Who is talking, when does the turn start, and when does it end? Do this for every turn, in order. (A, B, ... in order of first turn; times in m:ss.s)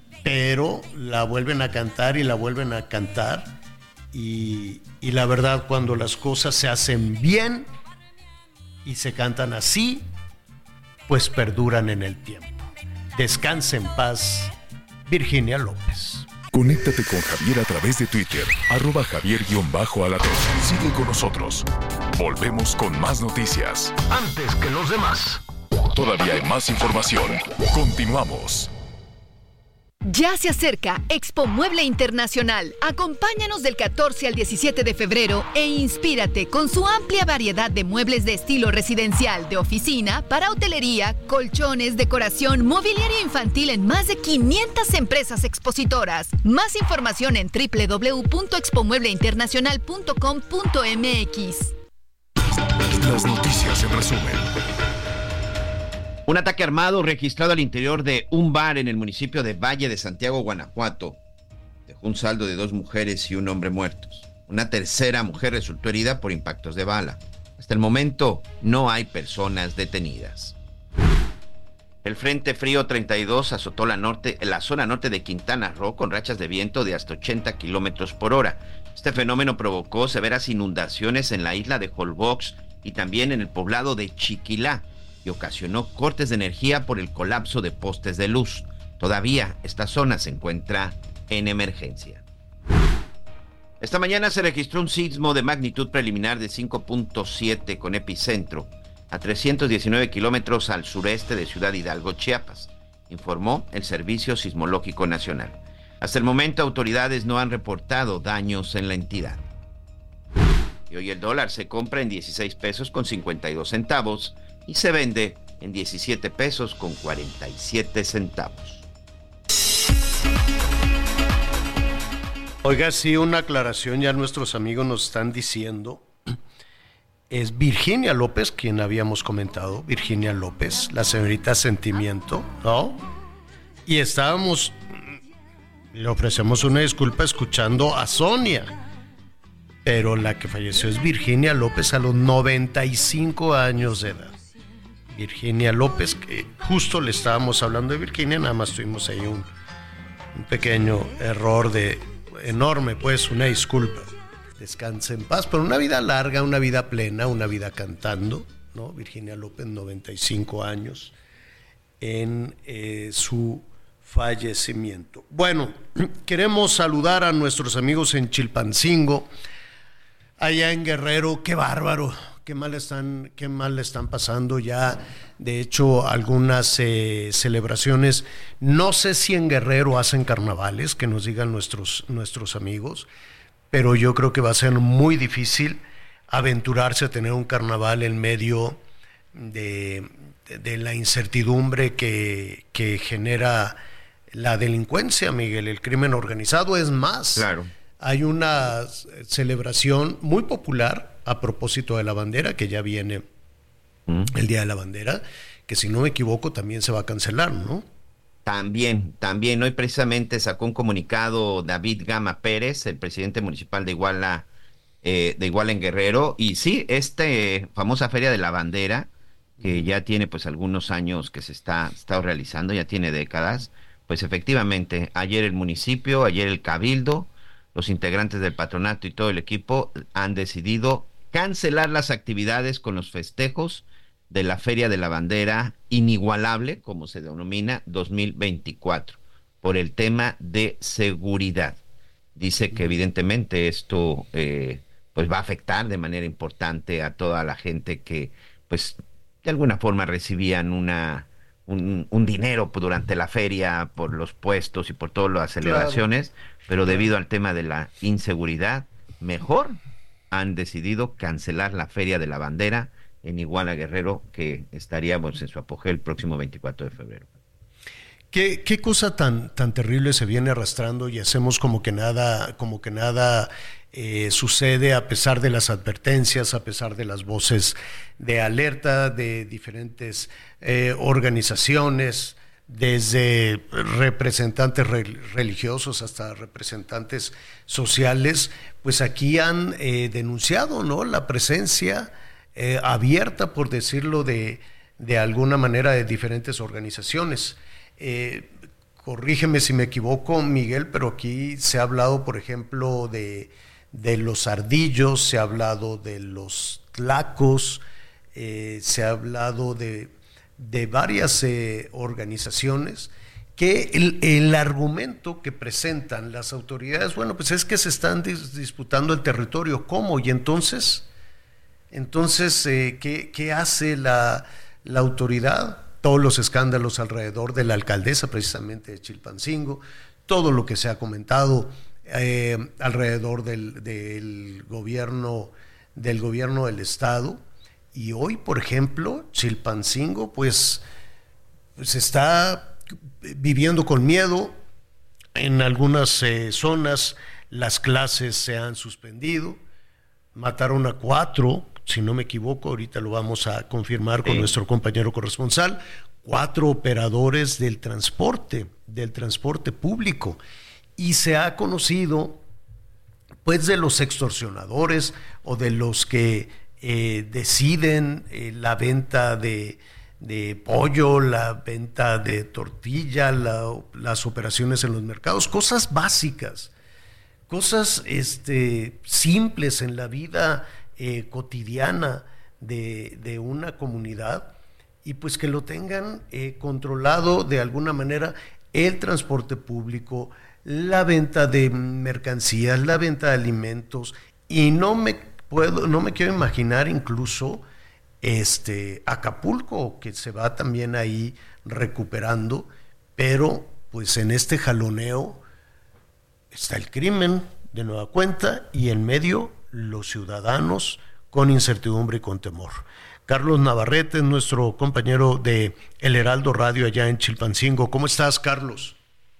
0:00.2-0:03.5 A
0:04.1-0:07.7 A
0:08.8-0:10.1 A
0:11.1-0:14.5 A
0:15.1-0:16.3 A
0:16.5-0:24.0 B
0:24.1-0:25.4 A
0:25.9-0:28.7 B
0:30.0-0:51.7 C
0:53.0-0:54.5 B
0:56.3-1:01.2 D
1:01.9-1:10.6 D
1:12.0-1:32.2 D
1:33.8-1:49.4 D
1:50.9-1:58.8 D
2:02.6-2:06.1 A
2:07.3-2:13.0 A
2:13.9-2:14.8 A
2:15.9-2:18.7 A
2:19.8-2:24.3 A
2:25.1-2:29.5 A
2:30.3-2:41.2 A
2:42.0-2:49.3 A
2:50.4-3:03.1 A
3:03.7-3:08.8 A
3:09.3-3:13.8 A
3:14.3-3:17.5 A
3:17.4-3:17.7 D
3:18.0-3:23.2 A
3:24.3-3:27.8 A
3:28.4-3:34.5 D
3:35.0-3:39.1 D
3:39.6-3:39.9 A
3:39.6-4:01.8 D
4:02.4-4:19.8 D
4:15.6-4:16.0 A
4:20.3-4:27.3 D
4:28.3-5:07.8 A
5:08.4-5:21.1 A
5:21.9-5:37.4 A
5:37.9-5:40.8 A
5:41.8-5:44.6 A
5:45.4-5:49.6 A
5:50.4-6:00.4 A
5:54.2-5:54.5 D
6:01.0-6:02.4 A
6:03.4-6:16.7 A
6:17.5-6:37.6 A
6:38.2-6:45.4 A
6:46.5-6:59.0 A